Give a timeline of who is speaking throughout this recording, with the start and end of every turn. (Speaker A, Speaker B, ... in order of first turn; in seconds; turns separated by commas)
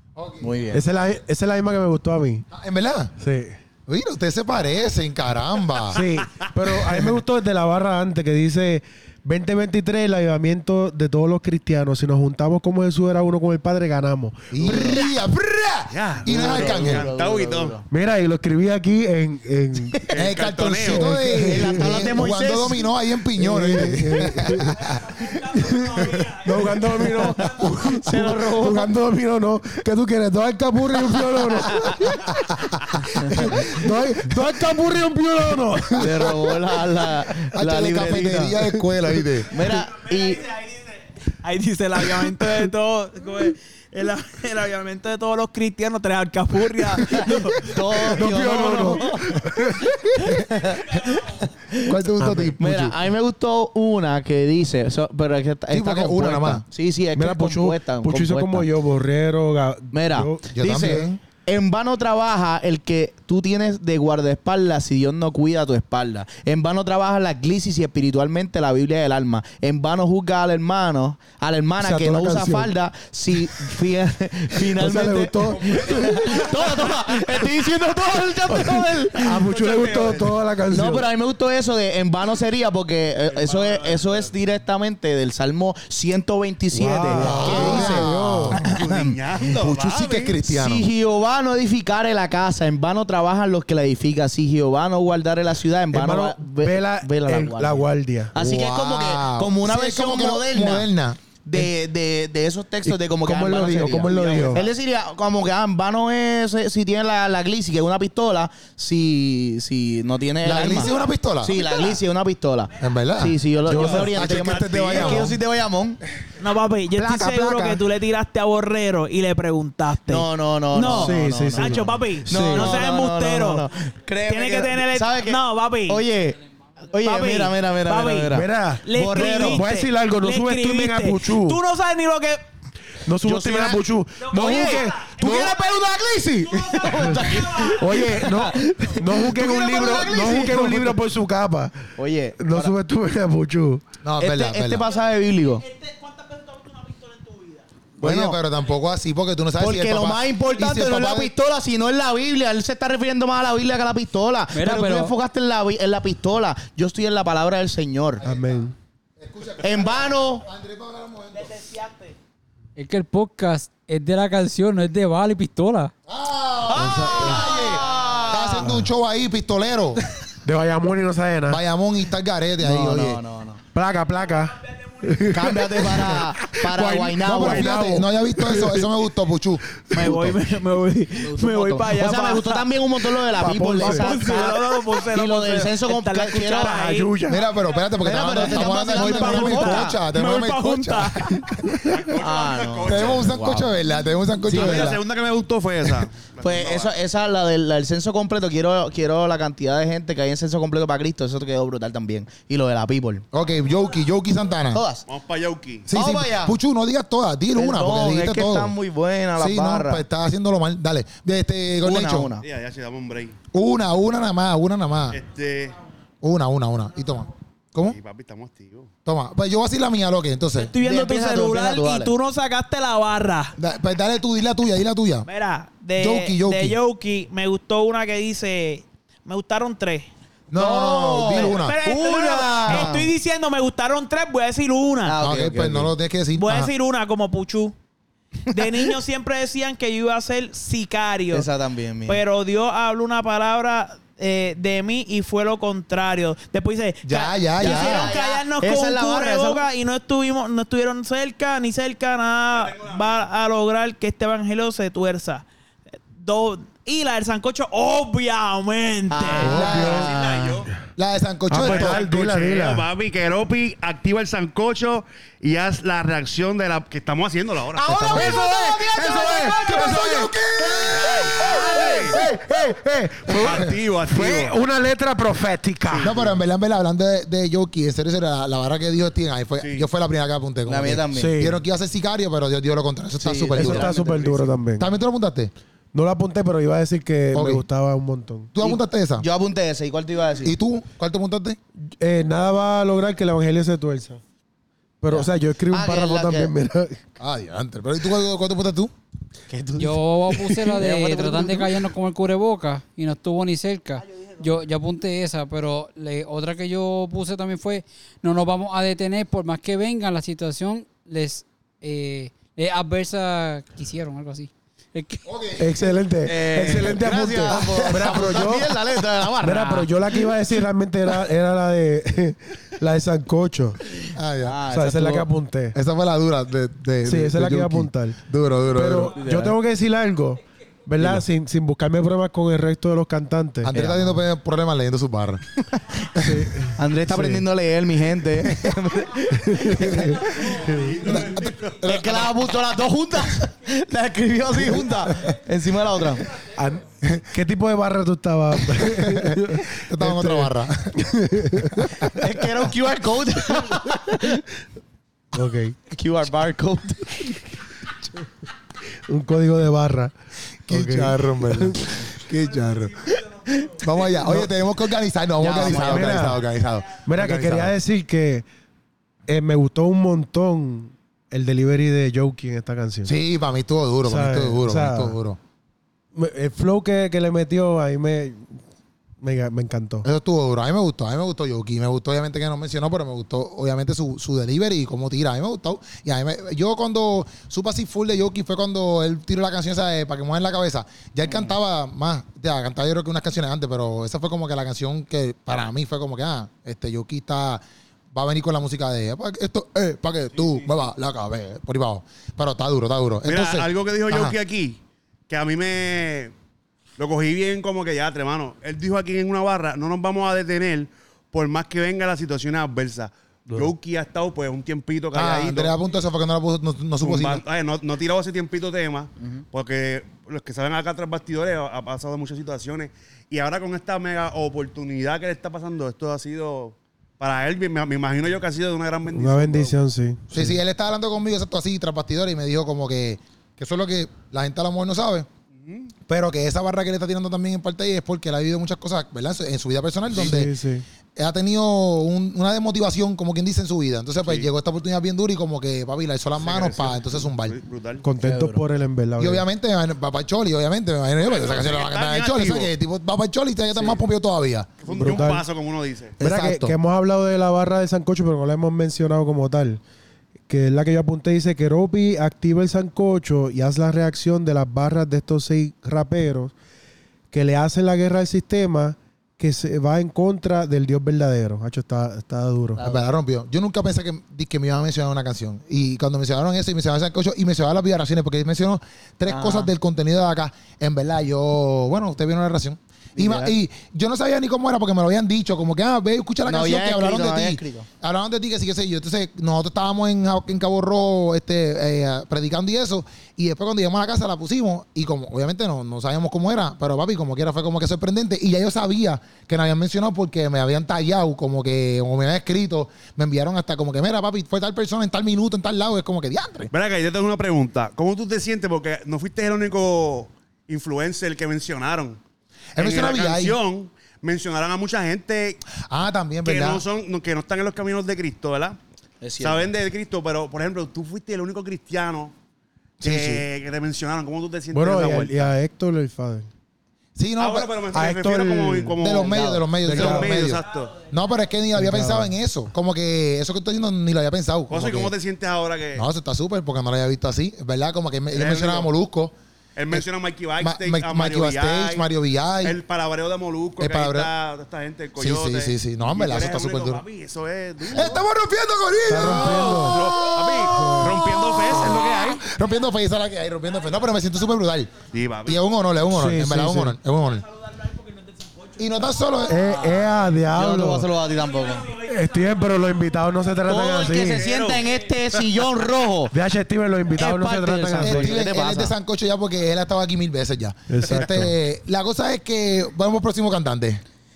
Speaker A: 0.1-0.5, Speaker B: 0.4-0.8, Speaker C: 0.7-2.4, Speaker A: 2.5-3.1, Speaker C: 3.2-3.6, Speaker A: 3.9-6.0, Speaker C: 5.9-14.9, Speaker A: 14.5-17.1, Speaker B: 14.6-15.1, Speaker D: 15.9-17.8, Speaker B: 16.2-17.9, Speaker C: 17.9-20.0, Speaker D: 20.1-21.1, Speaker A: 20.1-25.0, Speaker C: 20.8-22.1, Speaker B: 21.3-22.9, Speaker C: 23.3-24.7, Speaker E: 24.8-27.9, Speaker C: 25.8-36.4, Speaker B: 28.0-28.9, Speaker B: 31.7-32.0, Speaker A: 32.9-33.9, Speaker B: 36.0-38.6, Speaker A: 36.0-36.3, Speaker A: 37.5-39.5, Speaker B: 39.5-40.4, Speaker E: 39.6-48.1, Speaker B: 47.0-49.4, Speaker C: 48.0-50.2, Speaker B: 50.0-51.9, Speaker E: 50.6-51.3, Speaker A: 51.8-53.0, Speaker C: 52.2-52.6, Speaker B: 52.6-58.7, Speaker A: 55.7-56.6, Speaker C: 57.1-61.0, Speaker B: 59.9-79.5, Speaker A: 60.5-61.2, Speaker C: 71.8-72.7, Speaker C: 74.6-81.1, Speaker D: 75.7-76.3, Speaker D: 79.3-80.4, Speaker B: 80.7-89.2, Speaker D: 83.3-84.3, Speaker C: 86.7-88.6, Speaker A: 87.1-88.7, Speaker D: 88.6-90.4, Speaker A: 89.5-90.9, Speaker B: 90.5-100.9, Speaker C: 95.9-98.3, Speaker A: 98.3-101.2, Speaker B: 101.4-116.0, Speaker C: 102.8-104.6, Speaker A: 110.4-111.7, Speaker E: 111.6-111.9, Speaker A: 112.8-115.4, Speaker C: 113.6-114.2, Speaker D: 113.7-115.3, Speaker E: 116.4-123.6, Speaker B: 117.0-117.8, Speaker B: 120.1-126.4, Speaker C: 120.8-122.8, Speaker E: 124.2-126.0, Speaker B: 126.9-129.6, Speaker E: 126.9-132.4, Speaker C: 128.3-131.6, Speaker C: 133.0-135.6, Speaker B: 133.2-133.8, Speaker E: 134.2-138.6, Speaker B: 134.4-141.0, Speaker C: 137.7-143.8, Speaker B: 142.0-142.7, Speaker A: 144.0-144.8, Speaker B: 144.2-145.6, Speaker E: 144.8-147.7, Speaker B: 148.0-148.4, Speaker A: 148.0-151.3, Speaker B: 149.6-158.2, Speaker F: 154.5-155.1, Speaker A: 158.2-158.7, Speaker C: 158.2-158.7, Speaker A: 159.2-161.6, Speaker B: 159.6-160.4, Speaker E: 161.3-162.2, Speaker F: 162.8-165.9, Speaker A: 166.1-170.0, Speaker B: 166.7-168.7, Speaker C: 166.7-167.4, Speaker E: 167.2-168.3, Speaker C: 168.6-168.9, Speaker C: 170.4-171.6, Speaker A: 171.5-173.2, Speaker B: 172.6-173.6, Speaker C: 173.7-178.9, Speaker E: 174.4-175.3, Speaker B: 175.3-177.7, Speaker A: 177.2-179.8, Speaker C: 179.9-180.3, Speaker E: 179.9-182.7, Speaker B: 181.2-186.8, Speaker C: 183.3-184.2, Speaker E: 183.7-187.1, Speaker C: 186.6-187.4, Speaker A: 187.3-191.9, Speaker B: 188.0-190.0, Speaker E: 188.3-191.6, Speaker D: 191.9-193.6, Speaker B: 192.2-193.7, Speaker A: 192.8-195.0, Speaker B: 194.5-194.9, Speaker D: 194.5-196.9, Speaker B: 196.4-203.2, Speaker A: 203.3-204.8, Speaker B: 204.7-205.0, Speaker D: 205.1-205.9, Speaker A: 205.9-208.7, Speaker B: 205.9-206.6, Speaker B: 207.5-210.0, Speaker A: 209.3-212.3, Speaker B: 211.8-212.4, Speaker D: 212.4-213.3, Speaker A: 213.5-215.2, Speaker D: 215.1-215.8, Speaker A: 216.2-218.0, Speaker D: 217.8-218.9, Speaker A: 219.1-220.7, Speaker E: 220.6-223.6, Speaker B: 220.8-222.1, Speaker A: 223.6-225.3, Speaker E: 225.2-230.1, Speaker A: 226.0-226.8, Speaker A: 230.5-231.8, Speaker B: 230.5-233.1, Speaker E: 231.3-235.2, Speaker B: 235.1-235.9, Speaker A: 235.2-236.7, Speaker E: 236.3-237.7, Speaker E: 238.5-241.5, Speaker B: 241.3-242.2, Speaker E: 242.0-255.4, Speaker A: 247.0-248.1, Speaker B: 247.6-249.6, Speaker D: 252.5-253.2, Speaker E: 256.1-259.7, Speaker B: 259.1-260.1, Speaker C: 259.4-260.7, Speaker A: 259.4-260.1, Speaker D: 259.6-260.7, Speaker A: 260.9-262.0, Speaker C: 261.5-262.9, Speaker D: 261.5-267.9, Speaker B: 267.8-270.1, Speaker A: 267.8-268.5, Speaker C: 268.1-276.1, Speaker A: 269.2-272.2, Speaker D: 270.9-272.2, Speaker D: 273.3-274.6, Speaker D: 275.9-276.3, Speaker A: 276.0-283.9, Speaker D: 279.6-279.9, Speaker B: 280.6-281.4, Speaker C: 281.1-281.6, Speaker B: 283.2-284.4, Speaker C: 283.6-284.9, Speaker A: 284.8-285.5, Speaker C: 285.9-288.5, Speaker A: 287.3-287.6, Speaker A: 288.5-289.2, Speaker B: 288.6-290.5, Speaker A: 290.4-291.6, Speaker C: 292.0-294.2, Speaker C: 295.0-297.0, Speaker B: 295.1-296.5, Speaker A: 297.2-298.9, Speaker B: 299.5-301.8, Speaker F: 299.8-315.2, Speaker A: 315.2-315.9, Speaker C: 315.6-323.8, Speaker B: 316.2-319.9, Speaker A: 317.5-318.4, Speaker B: 324.0-325.2, Speaker A: 324.1-324.6, Speaker C: 324.7-325.8, Speaker A: 325.7-329.2, Speaker C: 327.0-328.2, Speaker C: 328.7-333.8, Speaker B: 329.1-329.5, Speaker A: 333.6-335.6, Speaker B: 333.7-334.2, Speaker A: 336.1-336.5, Speaker C: 336.2-337.4, Speaker B: 336.8-340.5, Speaker C: 339.2-341.1, Speaker A: 339.7-340.1, Speaker E: 340.3-340.7, Speaker D: 340.6-342.3, Speaker A: 341.0-342.3, Speaker B: 341.8-346.3, Speaker C: 346.4-352.1, Speaker A: 348.8-352.1, Speaker B: 352.1-354.4, Speaker C: 355.3-355.8, Speaker B: 355.9-357.4, Speaker C: 359.1-360.1, Speaker C: 360.7-361.9, Speaker A: 360.7-363.1, Speaker A: 363.8-367.7, Speaker C: 364.2-364.5, Speaker B: 365.4-366.4, Speaker C: 365.6-366.4, Speaker C: 367.0-368.4, Speaker C: 369.3-373.1, Speaker A: 373.1-375.4, Speaker C: 374.0-375.2, Speaker C: 376.1-378.6, Speaker C: 379.2-380.1, Speaker A: 380.0-397.6, Speaker A: 398.1-404.3, Speaker D: 400.3-400.7, Speaker D: 403.2-406.3, Speaker D: 407.0-415.7, Speaker A: 415.1-417.4, Speaker D: 417.0-429.8, Speaker C: 429.1-430.6, Speaker A: 430.3-435.3, Speaker D: 435.6-435.9, Speaker A: 436.1-440.5, Speaker C: 440.1-440.8, Speaker A: 441.1-447.6, Speaker D: 444.2-444.5, Speaker D: 446.4-448.0, Speaker C: 448.0-449.5, Speaker B: 448.2-448.6, Speaker A: 449.2-454.7, Speaker D: 451.2-452.7, Speaker D: 454.8-456.1, Speaker C: 454.9-455.4, Speaker A: 456.2-456.7, Speaker C: 456.2-459.8, Speaker C: 460.5-466.5, Speaker C: 467.3-472.8, Speaker B: 472.8-473.0, Speaker A: 472.8-506.7, Speaker B: 479.3-479.7, Speaker B: 483.1-483.5, Speaker B: 486.4-487.9, Speaker D: 506.7-512.2, Speaker A: 512.7-513.5, Speaker D: 512.8-515.6, Speaker A: 515.9-516.8, Speaker D: 516.4-518.8, Speaker B: 519.2-519.7, Speaker D: 519.4-522.3, Speaker D: 523.0-525.5, Speaker A: 523.0-523.4, Speaker C: 524.7-526.5, Speaker A: 527.1-527.7, Speaker D: 527.4-531.0, Speaker C: 527.9-529.0, Speaker A: 529.0-535.1, Speaker B: 529.2-529.6, Speaker C: 529.8-530.4, Speaker C: 531.7-532.3, Speaker D: 534.7-536.0, Speaker A: 536.0-539.3, Speaker D: 538.3-538.9, Speaker D: 539.8-542.0, Speaker A: 540.6-542.8, Speaker D: 542.6-548.3, Speaker A: 543.8-544.3, Speaker A: 545.2-547.0, Speaker A: 547.8-557.4, Speaker C: 549.0-550.1, Speaker D: 549.2-552.4, Speaker C: 550.6-552.0, Speaker D: 555.1-555.6, Speaker C: 556.1-557.0, Speaker E: 557.5-559.0, Speaker A: 558.8-559.9, Speaker C: 559.5-561.1, Speaker B: 559.6-561.9, Speaker E: 561.3-563.2, Speaker C: 562.0-564.5, Speaker B: 563.6-566.3, Speaker D: 564.2-565.5, Speaker C: 566.3-568.4, Speaker B: 567.1-568.9, Speaker A: 568.0-574.0, Speaker C: 570.9-571.6